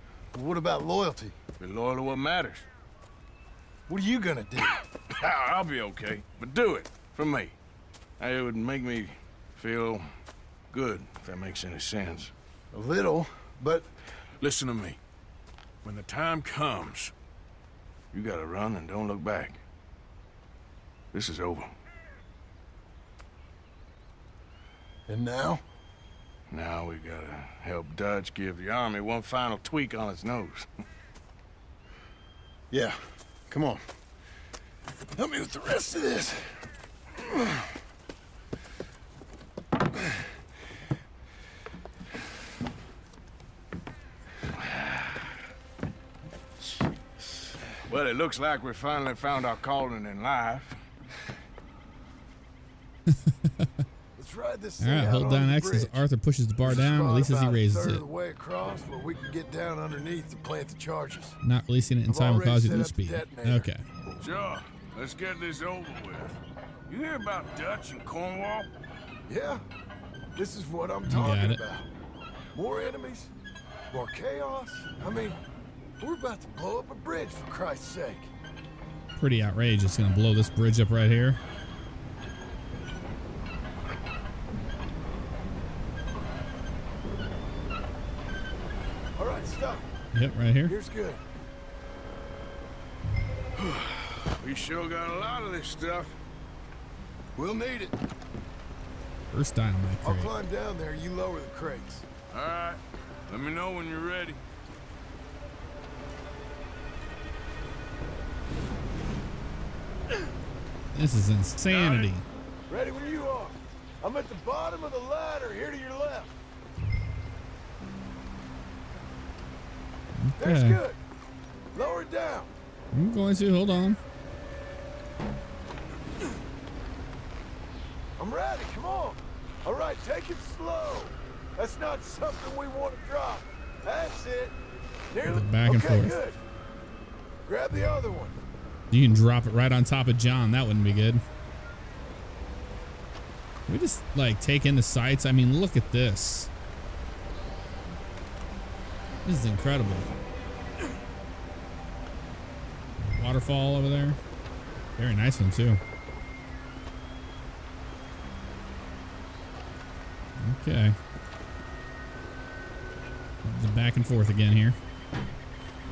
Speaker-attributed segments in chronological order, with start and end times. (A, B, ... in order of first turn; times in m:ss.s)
0:00.3-0:01.4 A
0:01.6-0:02.7 B
0:03.9-0:04.8 A
0:05.1-0:07.6 B
0:08.2-0:10.1 B
0:10.7-0:12.3 B
0:12.7-0:13.9 A
0:14.4-0:15.0 B
0:15.8-0:17.1 B
0:18.1-0:19.6 B
0:21.1-0:21.7 B
0:25.1-0:25.6 A
0:26.5-0:30.7 B
0:32.7-0:33.8 A
0:35.1-0:36.7 A
0:37.2-0:37.6 A
0:44.6-0:45.2 B
0:47.9-0:50.8 B
0:53.1-0:53.7 C
0:54.2-0:56.0 A
0:54.8-0:58.0 C
0:56.6-1:01.4 A
1:01.4-1:03.8 C
1:02.1-1:03.7 A
1:04.2-1:08.7 B
1:09.3-1:09.6 A
1:10.3-1:11.9 A
1:11.0-1:11.6 C
1:12.5-1:13.3 A
1:13.9-1:15.4 A
1:16.0-1:18.3 A
1:19.2-1:21.4 C
1:29.2-1:29.9 A
1:30.1-1:30.7 C
1:30.6-1:31.2 A
1:33.6-1:36.1 B
1:37.4-1:38.0 A
1:39.3-1:40.3 C
1:40.0-1:42.0 A
1:42.3-1:44.4 B
1:50.9-1:52.2 C
1:51.6-1:52.1 B
1:52.7-1:56.3 A
2:00.2-2:00.8 C
2:00.4-2:01.0 A
2:01.7-2:02.5 A
2:02.9-2:04.0 C
2:08.2-2:14.6 A
2:15.1-2:16.4 A
2:15.2-2:16.2 C
2:17.4-2:18.4 A
2:18.9-2:21.2 C
2:23.7-2:26.5 C
2:29.2-2:30.1 C
2:33.0-2:34.2 C
2:35.0-2:35.8 C
2:40.4-2:41.0 C
2:43.4-2:44.8 C